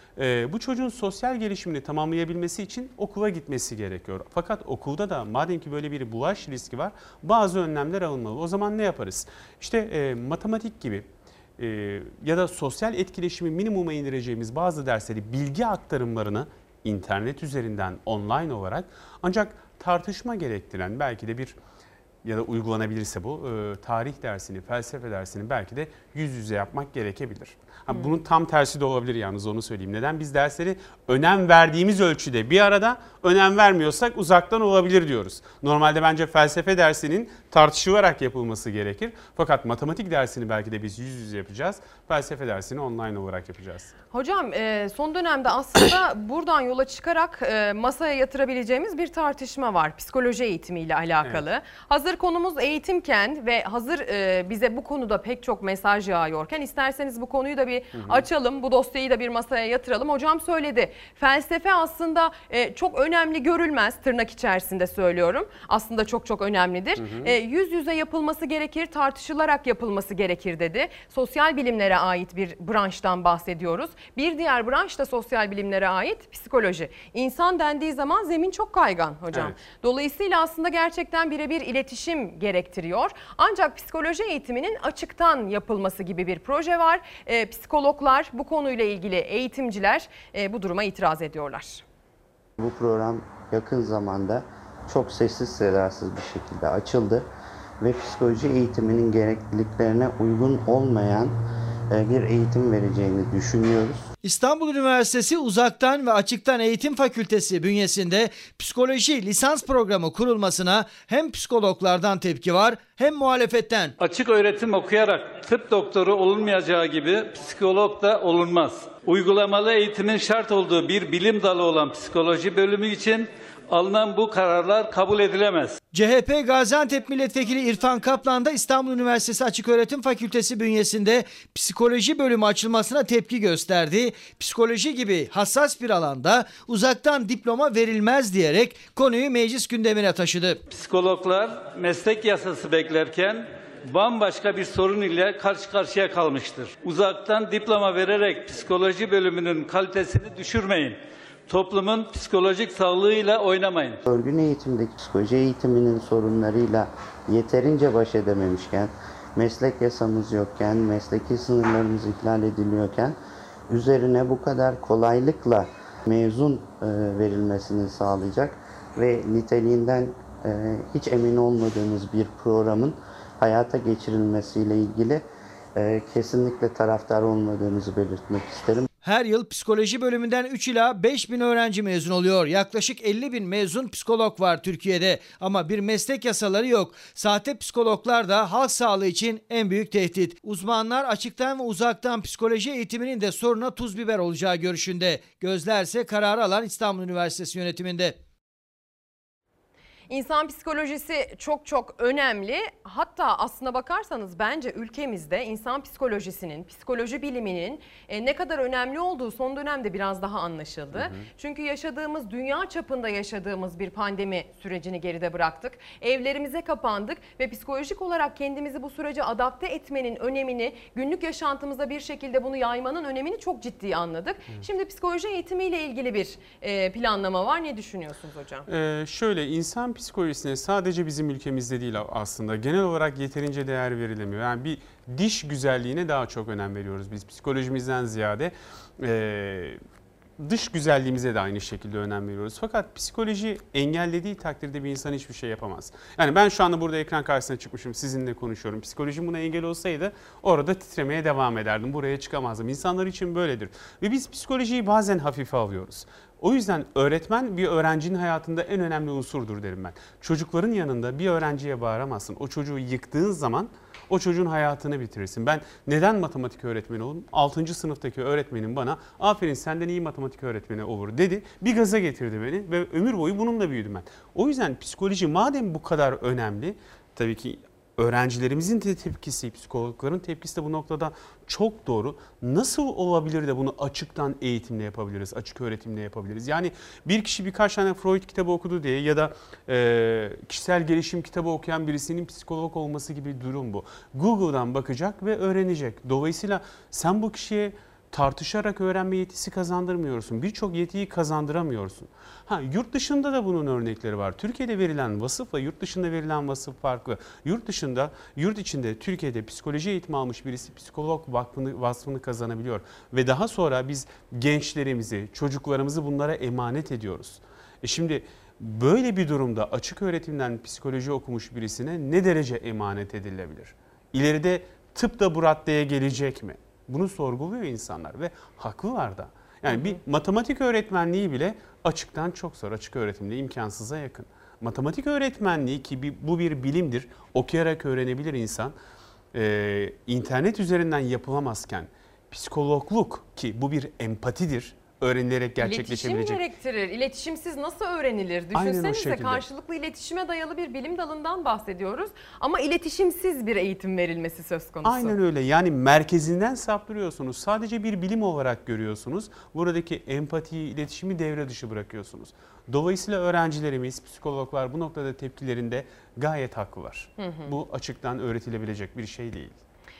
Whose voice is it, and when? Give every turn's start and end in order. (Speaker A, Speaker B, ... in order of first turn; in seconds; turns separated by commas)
Speaker A: 0.2-11.1, Speaker A: 11.6-21.6, Speaker A: 22.2-43.9, Speaker B: 44.1-91.8, Speaker A: 58.0-58.2, Speaker A: 67.0-67.4, Speaker A: 79.3-79.6, Speaker C: 92.6-97.3, Speaker C: 97.8-101.4, Speaker C: 101.9-104.1, Speaker D: 104.2-113.9, Speaker E: 114.0-125.8, Speaker D: 125.9-140.6, Speaker E: 140.7-154.0, Speaker C: 154.1-163.2, Speaker C: 163.7-175.2, Speaker C: 175.8-178.9, Speaker D: 179.0-198.2, Speaker B: 200.1-228.7, Speaker A: 210.9-211.3, Speaker A: 228.7-239.8, Speaker A: 240.4-338.8, Speaker B: 329.7-330.0, Speaker A: 339.3-346.4, Speaker B: 345.6-355.2, Speaker A: 348.5-349.4, Speaker A: 354.8-369.6, Speaker B: 367.2-367.5